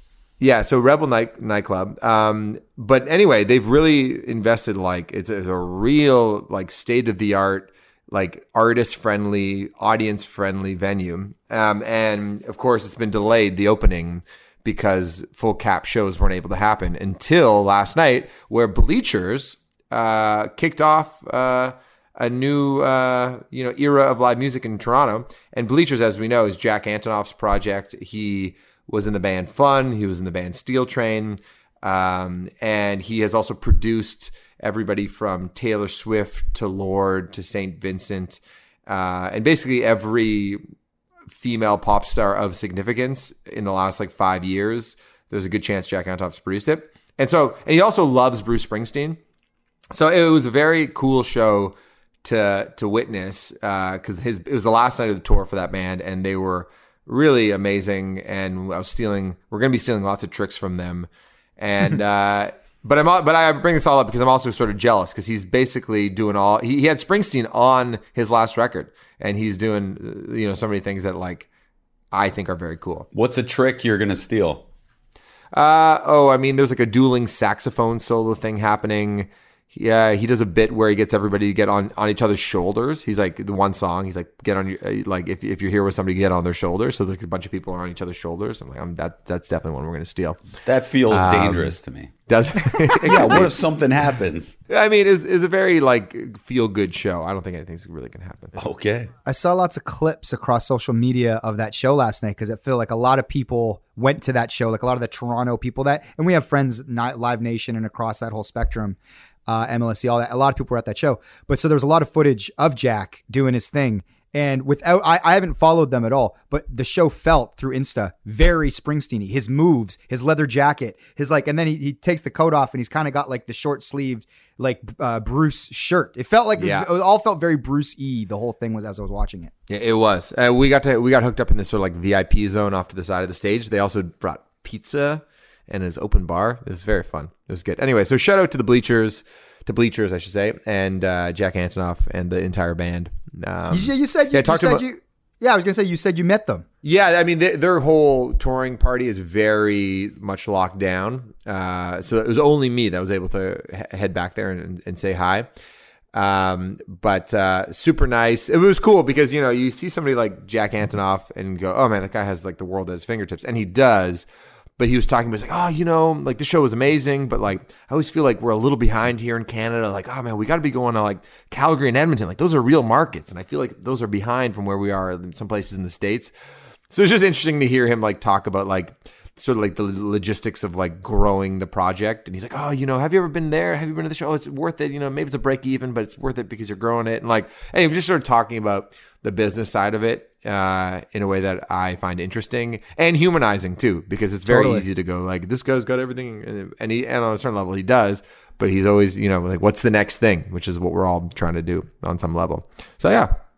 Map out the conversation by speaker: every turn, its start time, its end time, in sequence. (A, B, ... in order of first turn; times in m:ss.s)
0:00.4-0:40.6 A
0:41.3-0:49.2 A
0:49.9-1:11.5 A
1:12.1-1:13.1 A
1:13.1-1:14.6 B
1:15.5-1:30.4 A
1:30.6-1:32.1 B
1:31.1-1:31.8 A
1:32.3-1:33.5 A
1:33.0-1:34.6 B
1:34.7-1:38.6 A
1:38.6-1:39.1 B
1:39.3-2:09.5 C
2:06.6-2:06.9 A
2:09.7-2:24.8 A
2:23.7-2:26.6 C
2:26.8-2:35.5 A
2:36.1-2:44.3 A
2:44.8-2:56.3 A
2:56.9-3:23.3 A
3:14.5-3:14.9 C